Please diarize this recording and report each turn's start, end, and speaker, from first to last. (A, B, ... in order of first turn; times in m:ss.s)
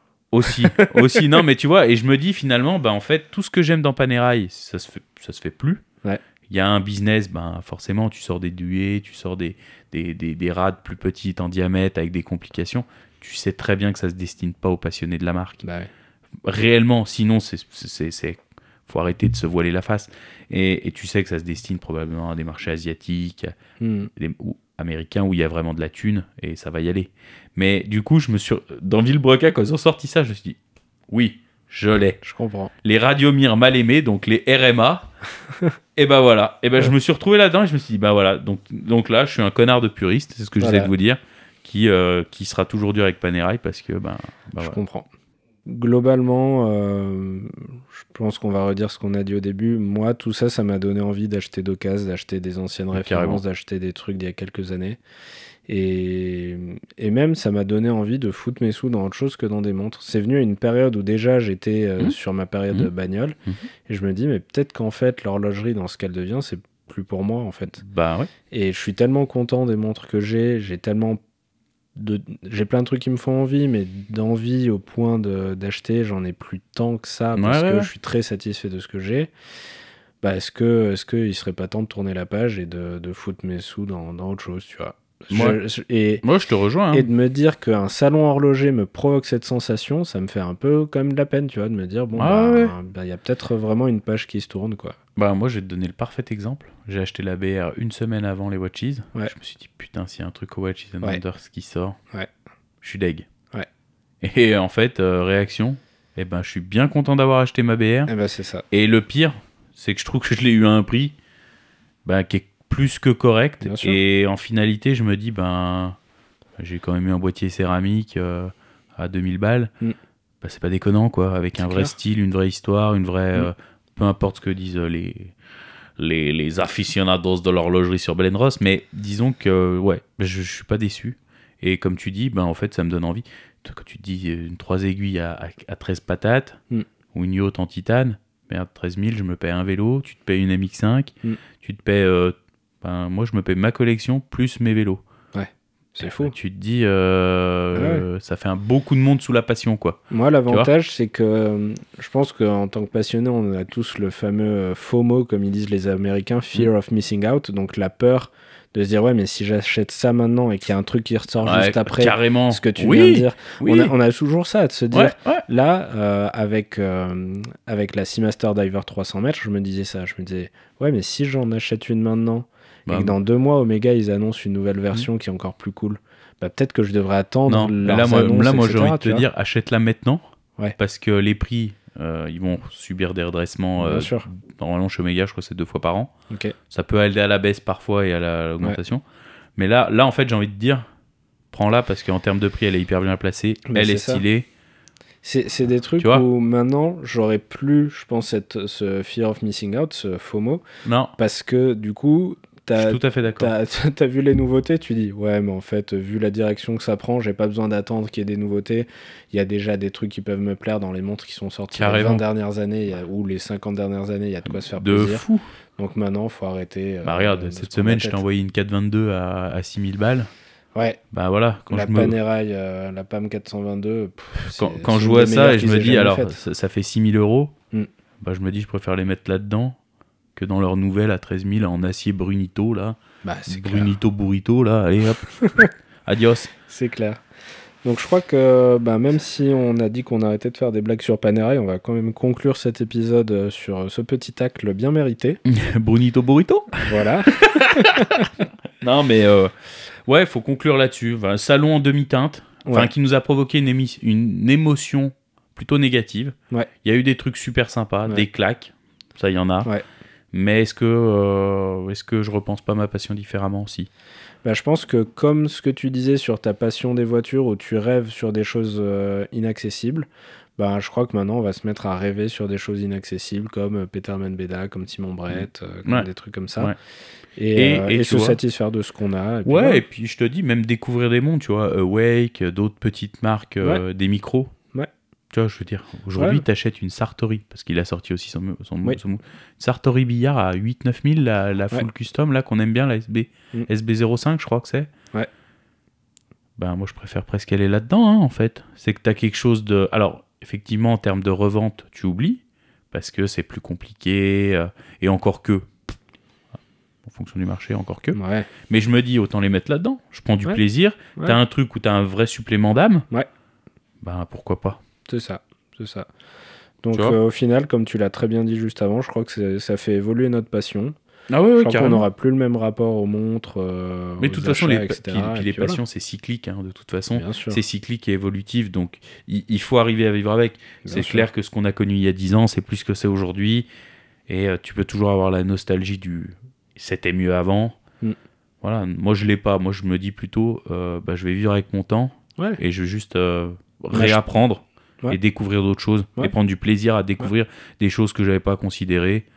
0:00.3-0:05.8 A
0:00.4-0:01.3 B
0:06.5-0:15.6 A
0:15.6-0:15.9 B
0:16.4-0:23.6 A
0:23.8-0:24.1 B
0:24.2-0:30.6 A
0:31.1-0:32.2 A
0:32.2-0:32.7 B
0:32.8-0:35.1 A
0:36.0-0:44.8 A
0:40.6-0:40.9 B
0:44.6-0:45.1 B
0:45.7-0:55.0 B
0:52.9-0:53.4 A
0:55.7-1:07.8 B
1:07.8-1:08.3 A
1:08.5-1:11.2 B
1:12.0-1:19.3 B
1:17.4-1:17.9 A
1:20.2-1:26.2 B
1:25.3-1:25.6 A
1:26.2-1:27.1 A
1:26.9-1:35.0 B
1:32.2-1:32.7 A
1:35.2-1:42.0 A
1:42.8-1:43.3 A
1:44.2-1:48.1 A
1:48.1-1:48.6 B
1:48.7-1:51.2 A
1:52.0-1:56.0 A
1:53.6-1:54.0 B
1:56.6-1:59.7 A
2:00.4-2:05.3 A
2:01.6-2:01.9 B
2:06.0-2:16.6 A
2:17.1-2:25.0 A
2:25.3-2:26.3 B
2:26.0-2:30.7 A
2:27.8-2:28.0 B
2:30.1-2:59.2 B
2:41.4-2:43.9 A
2:44.9-2:45.5 A
2:52.9-2:53.2 A
2:57.5-3:00.2 A
3:00.8-3:06.1 A
3:03.8-3:04.2 B
3:06.3-3:06.6 B
3:06.7-3:09.0 A
3:09.6-3:10.9 A
3:11.5-3:14.5 A
3:13.7-3:14.2 B
3:15.2-3:20.6 B
3:16.0-3:16.2 A
3:20.8-3:21.2 A
3:21.2-3:35.2 B
3:22.8-3:23.5 A
3:31.7-3:32.2 A
3:34.5-3:35.5 A
3:35.8-3:38.2 B
3:37.0-3:40.3 A
3:40.8-3:41.0 B
3:41.1-3:42.2 A
3:41.7-3:46.4 B
3:44.4-3:47.6 A
3:48.2-3:49.8 A
3:50.4-3:56.5 A
3:53.2-3:53.9 B
3:55.4-3:55.7 B
3:56.7-3:57.2 B
3:57.8-4:05.4 B
4:05.5-4:09.5 A
4:06.9-4:08.3 B
4:10.1-4:19.7 A
4:12.7-4:12.9 B
4:20.3-4:23.9 A
4:24.4-4:36.7 B
4:35.3-4:36.8 A
4:37.4-4:39.8 B
4:37.6-4:38.4 A
4:39.4-4:44.5 A
4:45.3-4:54.9 A
4:46.2-4:46.4 B
4:56.6-5:05.7 A
5:07.0-5:08.2 A
5:08.1-5:08.5 B
5:08.7-5:13.1 A
5:14.0-5:14.8 A
5:15.1-5:16.1 B
5:16.8-5:20.9 B
5:21.3-5:22.1 A
5:21.6-5:25.8 B
5:24.2-5:33.7 A
5:27.2-5:27.6 B
5:30.8-5:31.3 B
5:34.3-5:37.8 A
5:38.6-5:49.3 A
5:43.9-5:44.2 B